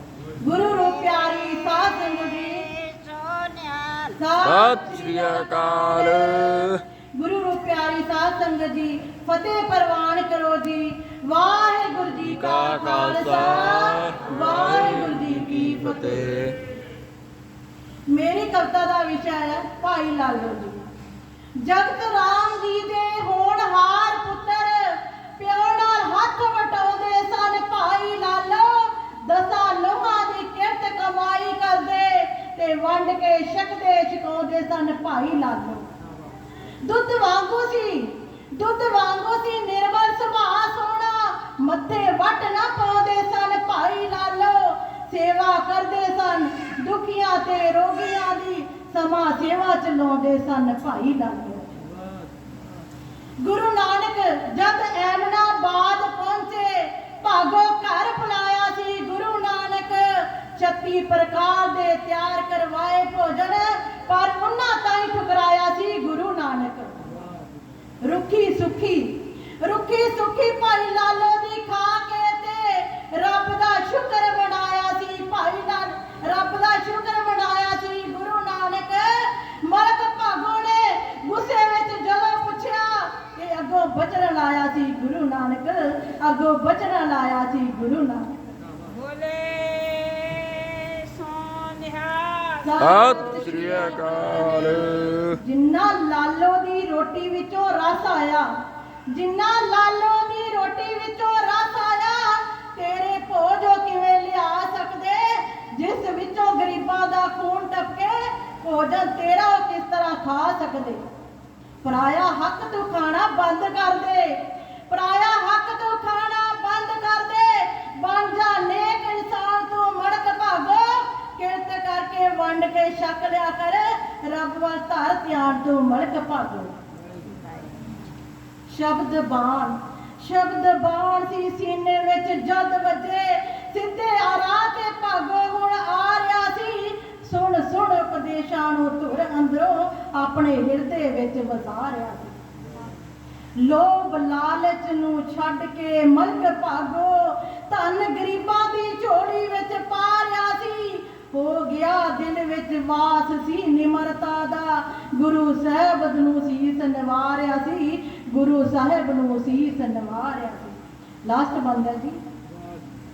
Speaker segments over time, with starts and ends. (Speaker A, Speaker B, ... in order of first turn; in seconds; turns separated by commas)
Speaker A: 0.4-2.7, Speaker B: 2.7-4.1, Speaker A: 4.2-6.5, Speaker C: 4.4-6.8, Speaker A: 7.2-16.3, Speaker C: 12.2-16.6, Speaker A: 18.1-20.9, Speaker A: 21.6-35.9, Speaker A: 36.8-51.7, Speaker A: 53.4-67.1, Speaker A: 68.0-88.4, Speaker B: 88.8-92.8, Speaker A: 92.6-93.6, Speaker C: 92.8-95.4, Speaker A: 95.4-98.5, Speaker A: 99.1-111.0, Speaker A: 111.8-126.8, Speaker A: 128.7-142.4, Speaker A: 143.6-162.2